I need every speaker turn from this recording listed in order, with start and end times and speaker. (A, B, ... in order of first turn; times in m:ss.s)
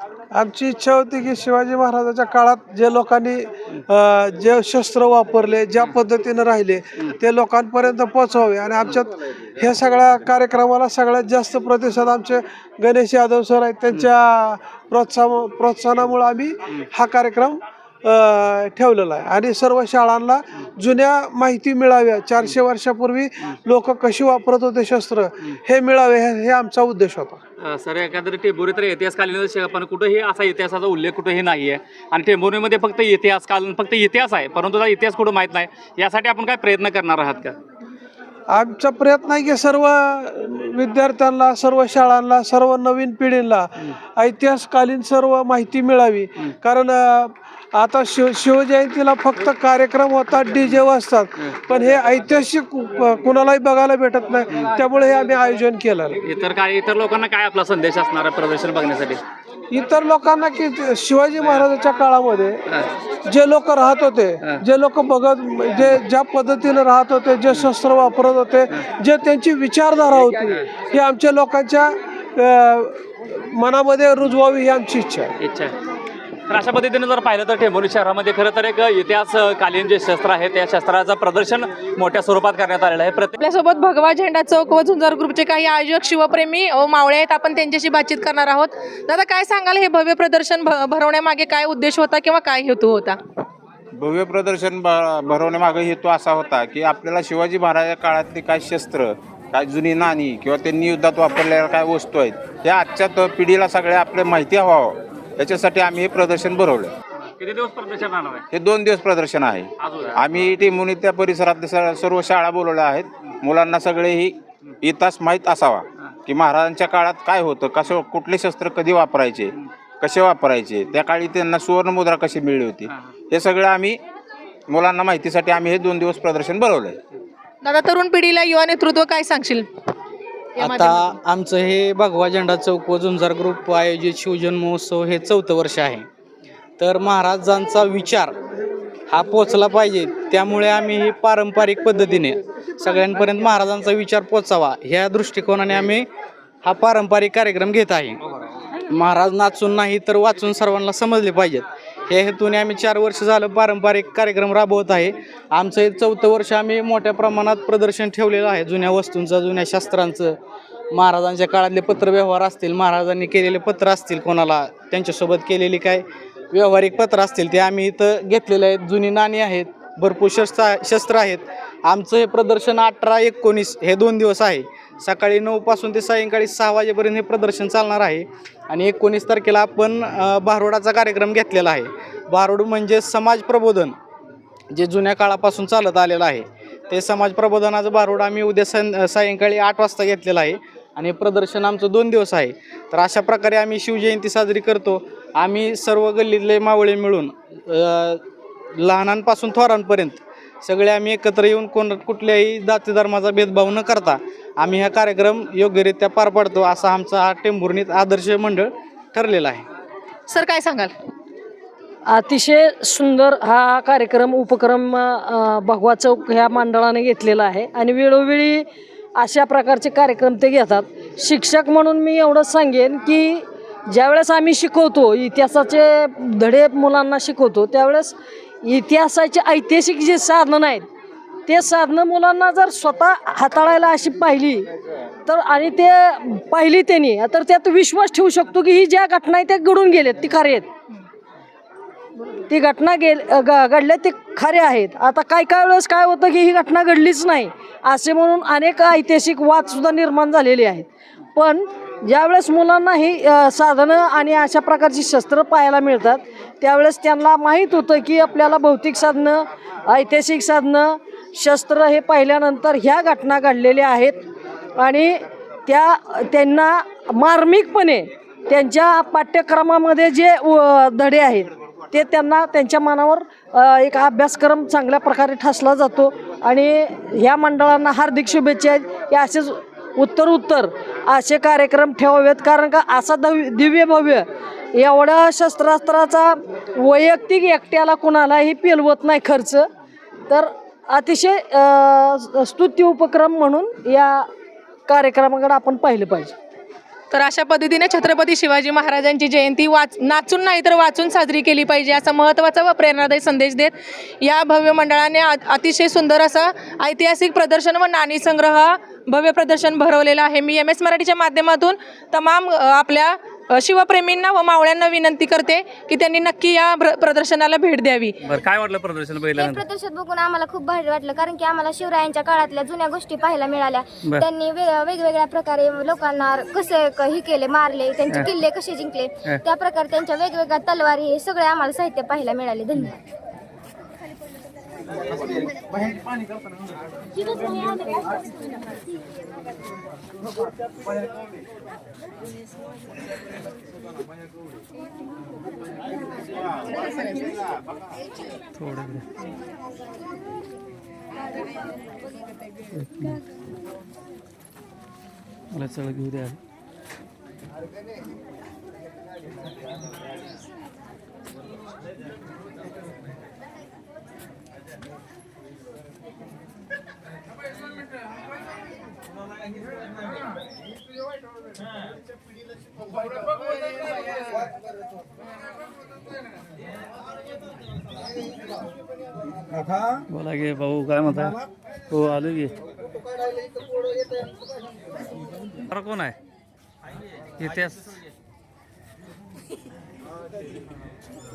0:00.3-0:27.4 A
0:27.6-0:37.6 B
0:38.5-0:56.2 A
0:56.2-0:59.2 B
0:59.7-1:02.6 A
1:03.2-1:15.3 A
1:15.4-1:15.7 B
1:16.5-1:23.3 B
1:23.4-1:33.2 C
1:34.0-1:46.9 D
1:47.4-1:48.4 B
1:48.5-2:04.0 D
1:49.8-1:50.2 B
2:04.7-2:07.0 D
2:07.6-2:09.7 C
2:10.6-2:11.1 C
2:10.6-2:16.1 E
2:16.8-2:18.4 E
2:19.1-2:26.1 E
2:26.6-2:28.2 E
2:28.9-2:40.4 E
2:40.9-3:04.0 E
3:04.7-3:18.2 E
3:18.8-3:29.6 E
3:30.3-3:30.9 C
3:32.1-3:50.8 F
3:51.5-3:54.7 F
3:55.3-4:00.7 F
4:02.4-4:49.7 F
4:50.3-4:54.3 F
4:54.9-4:56.4 F
4:57.1-5:18.2 C
5:18.2-5:19.7 B
5:19.4-5:32.9 G
5:48.6-5:49.0 B
5:52.8-5:53.2 B
5:55.5-5:56.4 B
6:20.1-6:22.6 B
6:25.6-6:26.2 B
6:27.4-6:27.9 B